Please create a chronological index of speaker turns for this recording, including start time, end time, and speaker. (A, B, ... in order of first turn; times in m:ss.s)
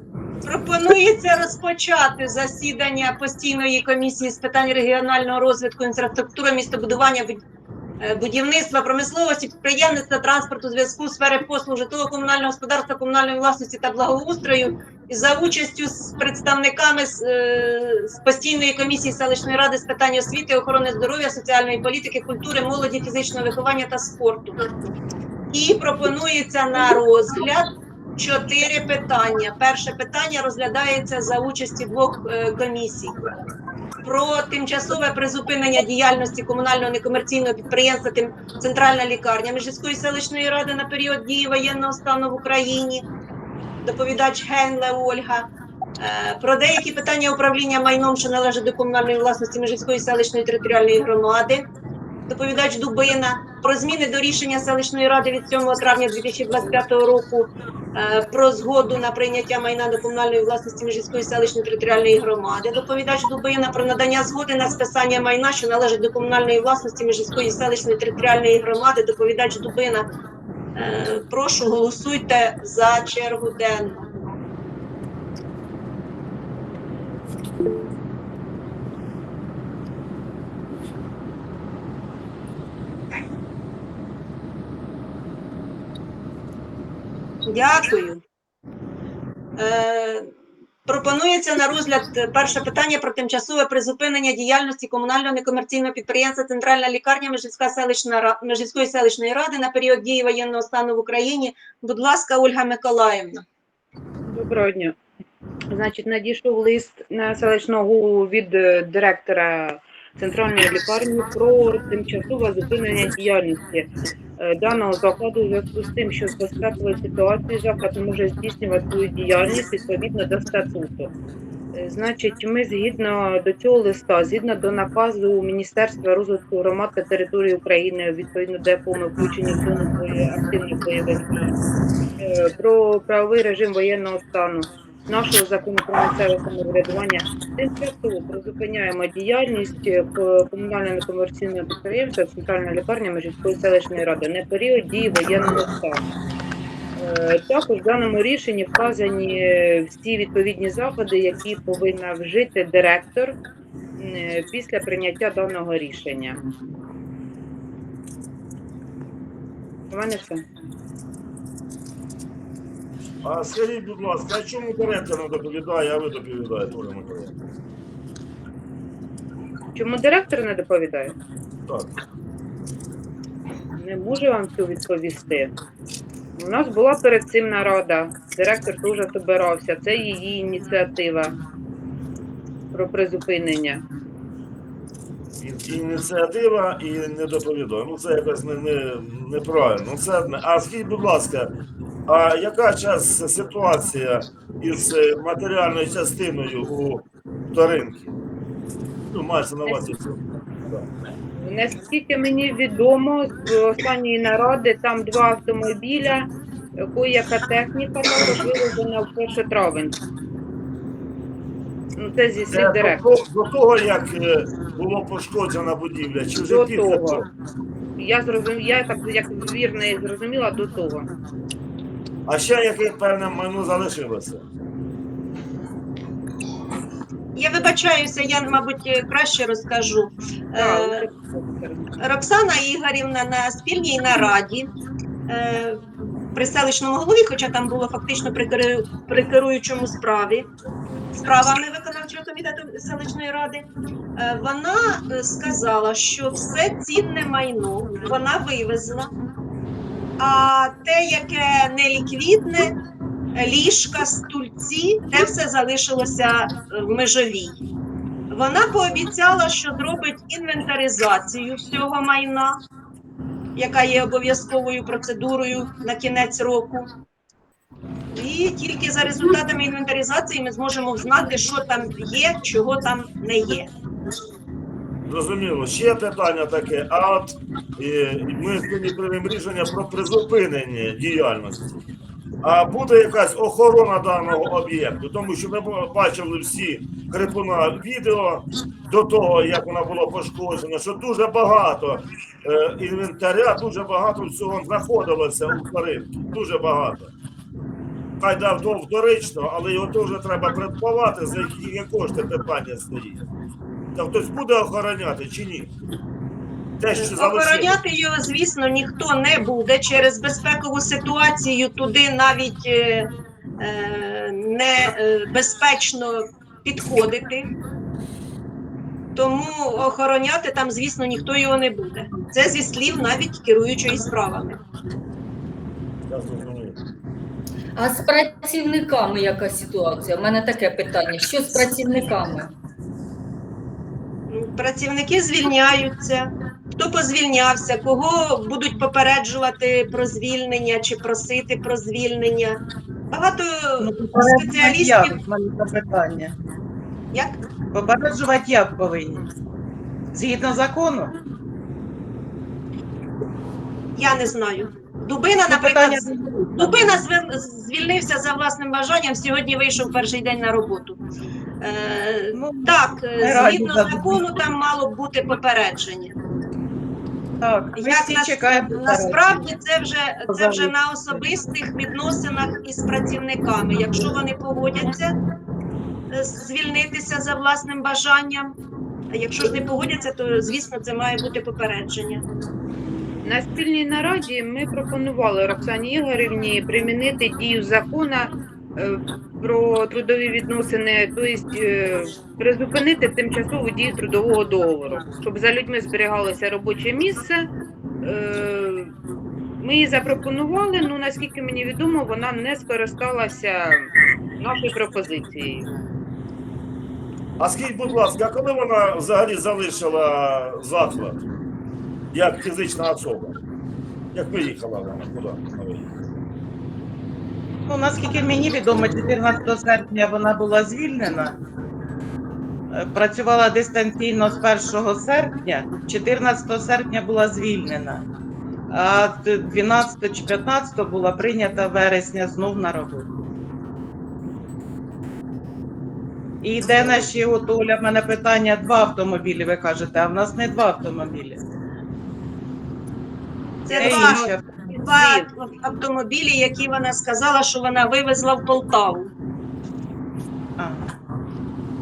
0:00.4-0:07.4 A
0:08.0-0:24.6 A
0:25.5-0:33.1 A
0:34.0-0:43.0 A
0:43.8-0:51.7 A
0:52.3-1:10.1 A
1:10.7-1:14.1 A
1:27.4-1:28.2 A
1:29.6-1:30.2 A
1:30.8-1:43.4 A
1:44.3-1:45.0 B
1:45.7-2:01.1 B
2:01.7-2:11.5 B
2:12.2-2:26.0 B
2:27.0-2:33.4 B
2:34.0-2:36.4 B
2:39.9-2:40.4 B
2:43.2-2:47.4 C
2:49.7-2:51.2 B
2:51.7-2:51.9 C
2:53.8-2:55.5 B
2:56.4-3:01.3 B
3:02.7-3:03.8 B
3:05.4-3:11.5 C
3:12.1-3:18.1 C
3:19.1-3:20.9 C
3:21.4-3:26.3 B
3:26.8-3:30.0 B
3:32.0-3:33.0 B
3:32.5-3:37.3 C
3:36.4-3:37.3 B
3:38.0-3:41.1 B
3:42.2-3:44.4 C
3:47.3-3:51.1 A
3:50.6-3:51.9 B
3:52.0-3:54.7 A
3:55.3-3:55.8 A
3:56.3-4:00.5 A
4:01.1-4:09.1 A
4:10.2-4:12.7 A
4:13.3-4:17.6 A
4:18.3-4:22.6 A
4:23.5-4:26.9 A
4:28.1-4:33.7 A
4:35.1-4:41.8 C
4:42.4-4:57.1 C
4:58.2-5:03.3 C
5:03.9-5:05.7 C
5:06.8-5:07.8 C
5:06.9-5:17.5 A
5:19.1-5:24.6 A
5:26.1-5:26.8 C
5:27.8-5:32.5 D
5:34.3-5:42.6 A
5:43.1-5:45.2 A
5:43.8-5:46.3 E
5:47.1-5:47.4 A
5:47.7-5:49.2 E
5:50.1-5:51.1 E
5:53.9-6:01.0 A
5:55.5-5:57.0 E
6:01.6-6:06.2 A
6:02.3-6:04.1 E
6:07.4-6:09.4 E
6:07.7-6:15.2 A
6:10.3-6:11.2 E
6:16.1-6:18.5 A
6:19.1-6:22.2 A
6:23.2-6:37.5 B
6:38.0-6:38.9 B
6:39.6-6:45.7 B
6:47.4-6:51.2 C
6:52.1-6:53.4 C
6:54.1-6:55.8 C
6:57.7-7:01.4 E
7:02.7-7:08.0 E
7:08.7-7:13.1 E
7:16.4-7:21.4 E
7:23.6-7:29.1 A
7:23.7-7:24.4 E
7:24.8-7:25.2 B
7:30.6-7:30.8 E